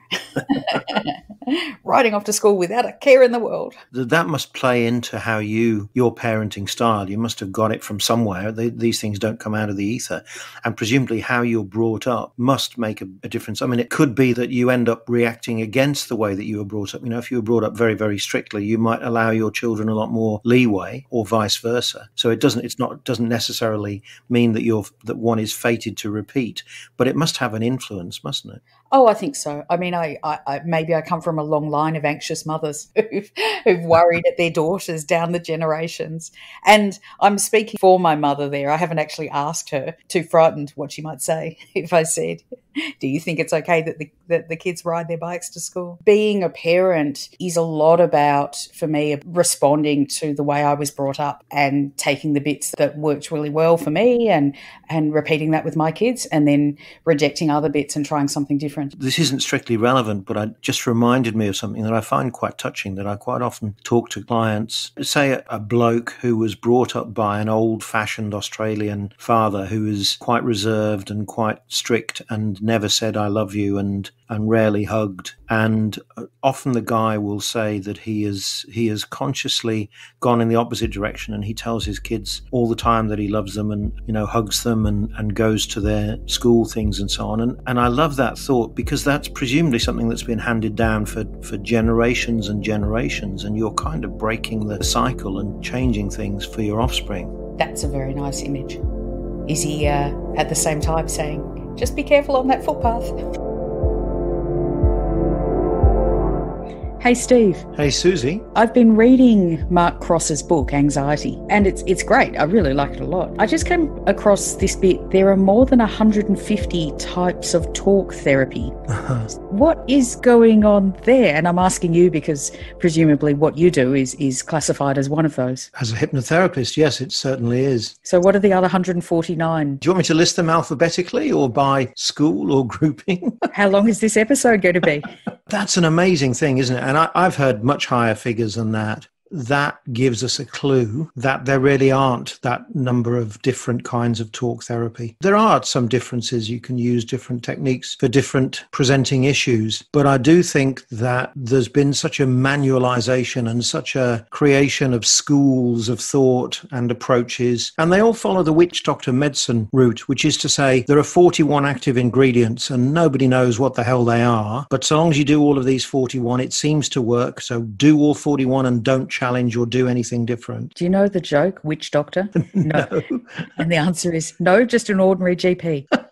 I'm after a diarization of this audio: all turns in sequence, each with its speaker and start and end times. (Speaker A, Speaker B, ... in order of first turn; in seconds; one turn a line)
Speaker A: 0.4-3.8
Speaker B: 3.9-28.6
Speaker A: 28.9-59.0
Speaker B: 59.0-97.3
Speaker A: 97.6-98.8
Speaker A: 99.5-103.2
Speaker A: 107.0-107.7
Speaker B: 107.8-108.5
Speaker A: 108.5-118.7
Speaker A: 119.5-125.7
Speaker B: 125.8-128.0
Speaker A: 128.0-129.8
Speaker B: 129.8-133.5
Speaker A: 133.5-135.1
Speaker B: 135.5-170.7
Speaker A: 170.8-173.0
Speaker A: 173.6-175.9